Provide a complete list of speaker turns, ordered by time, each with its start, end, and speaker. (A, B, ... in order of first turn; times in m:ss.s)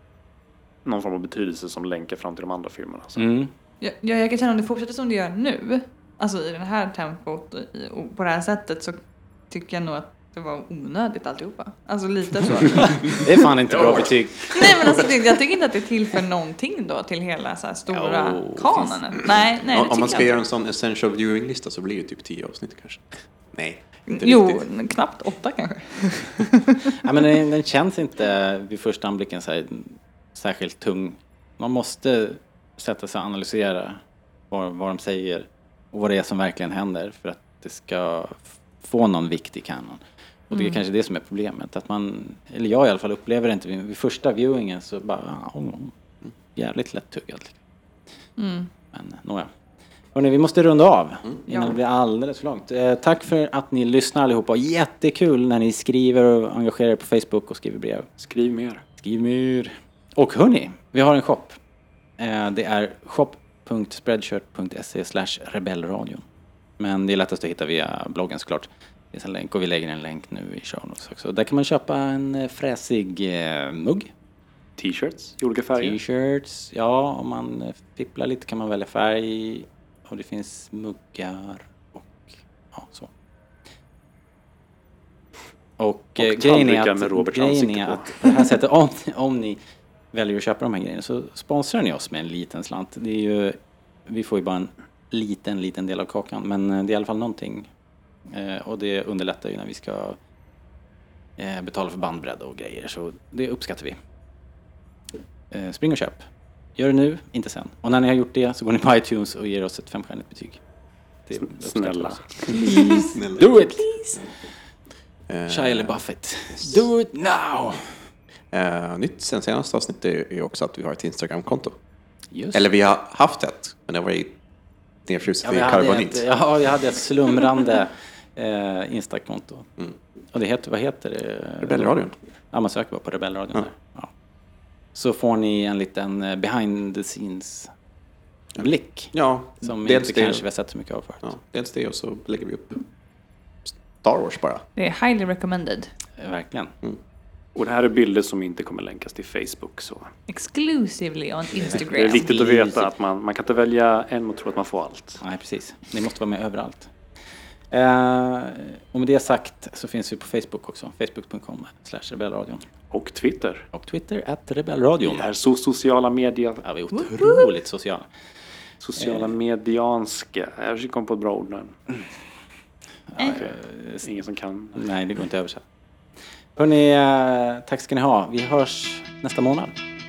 0:00.8-0:03.3 A
0:03.2-0:03.5 B
0:03.8-0:13.3 C
0:13.1-0:15.0 B
0:13.7-0:15.1 D
0:14.5-0:20.4 C
0:17.9-0:24.6 D
0:24.1-0:26.9 C
0:27.0-0:45.9 B
0:40.5-0:40.8 C
0:46.5-0:47.6 B
0:48.4-0:48.7 C
0:48.9-0:49.5 B
0:50.1-0:58.1 B
0:51.5-0:51.8 C
0:58.2-0:58.8 A
0:59.0-1:01.6 B
1:02.2-1:06.2 B
1:06.8-1:14.1 B
1:14.8-1:16.0 A
1:15.8-1:23.1 B
1:25.8-1:29.6 B
1:26.2-1:28.4 A
1:30.1-1:37.7 B
1:38.3-1:40.2 B
1:41.4-1:44.0 B
1:45.5-1:46.2 B
1:46.8-1:50.6 B
1:51.2-1:53.9 B
1:51.4-1:52.5 A
1:52.5-1:54.2 C
1:53.1-1:53.6 D
1:55.3-1:56.0 D
1:55.5-1:57.9 B
1:58.5-2:01.8 D
2:02.3-2:02.6 B
2:02.5-2:04.4 D
2:05.0-2:06.3 D
2:05.4-2:09.7 B
2:10.3-2:14.1 B
2:11.6-2:12.1 D
2:14.9-2:17.7 B
2:18.6-2:20.4 D
2:18.6-2:21.3 B
2:21.2-2:22.8 D
2:23.6-2:24.6 D
2:24.8-2:25.9 C
2:26.2-2:26.7 B
2:27.5-2:30.1 A
2:30.3-2:32.3 C
2:31.6-2:32.9 B
2:31.7-2:35.2 A
2:35.2-2:36.9 B
2:37.7-2:42.6 B
2:42.9-2:43.6 A
2:43.7-2:45.2 B
2:45.0-2:46.6 A
2:46.6-2:48.1 B
2:48.8-2:51.8 A
2:49.0-2:49.3 B
2:53.1-2:54.0 B
2:53.3-2:54.8 A
2:54.8-2:55.6 B
2:56.6-2:59.7 B